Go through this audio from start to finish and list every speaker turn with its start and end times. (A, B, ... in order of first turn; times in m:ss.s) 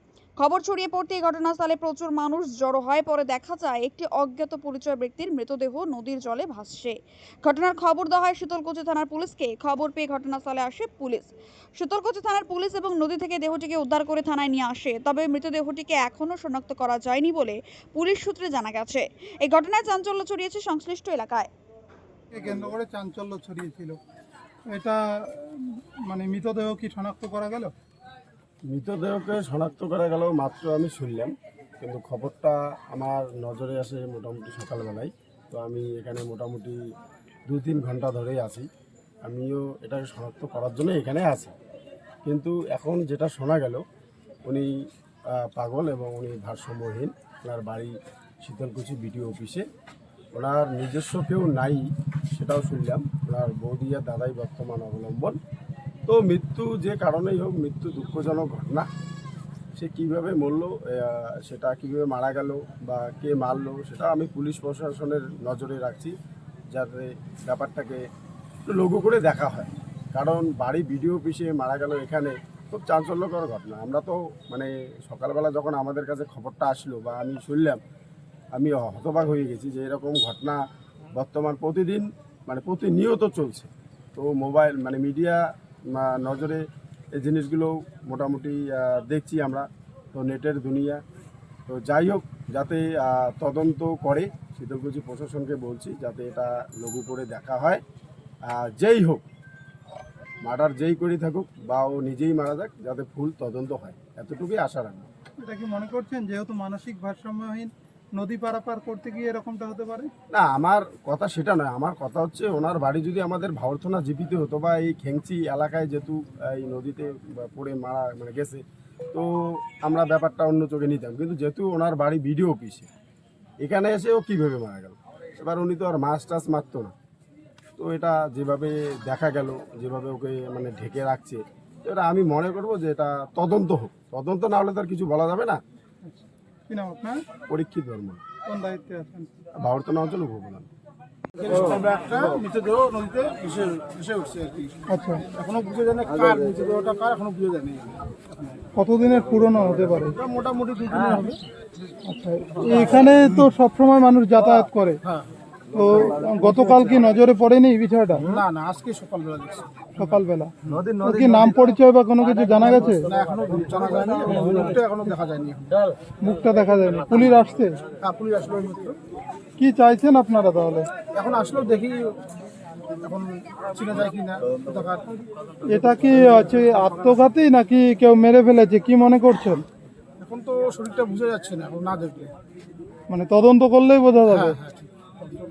0:00.4-0:21.5 A
0:22.3-0:24.0 B
0:24.7-0:27.7 B
0:28.7-0:36.8 C
0:37.5-0:38.7 C
0:39.2-0:41.5 C
0:42.2-0:43.8 C
0:44.5-0:44.7 C
0:45.3-0:49.6 C
0:50.3-0:55.4 C
0:56.1-0:58.9 C
0:59.8-1:06.1 C
1:06.7-1:08.0 C
1:08.7-1:17.8 C
1:18.5-1:20.6 C
1:21.1-1:31.0 C
1:31.7-1:37.8 C
1:38.5-1:39.2 C
1:40.4-1:45.1 C
1:45.4-1:50.1 B
1:50.3-2:02.9 C
2:03.6-2:06.9 C
2:07.8-2:15.6 C
2:16.0-2:17.2 B
2:17.5-2:18.2 C
2:18.4-2:19.3 B
2:19.6-2:20.7 C
2:21.4-2:28.6 D
2:24.9-2:25.3 B
2:28.8-2:30.2 B
2:30.2-2:31.1 C
2:30.9-2:31.4 D
2:32.0-2:35.0 B
2:35.7-2:38.3 B
2:38.3-2:39.9 D
2:40.0-2:43.1 B
2:43.1-2:45.8 D
2:46.2-2:47.8 B
2:47.9-2:49.0 D
2:49.6-2:50.9 B
2:51.1-2:52.3 D
2:53.0-2:55.1 D
2:55.6-2:59.6 B
2:56.2-2:57.2 D
3:00.2-3:02.3 D
3:03.1-3:04.6 B
3:04.3-3:05.3 D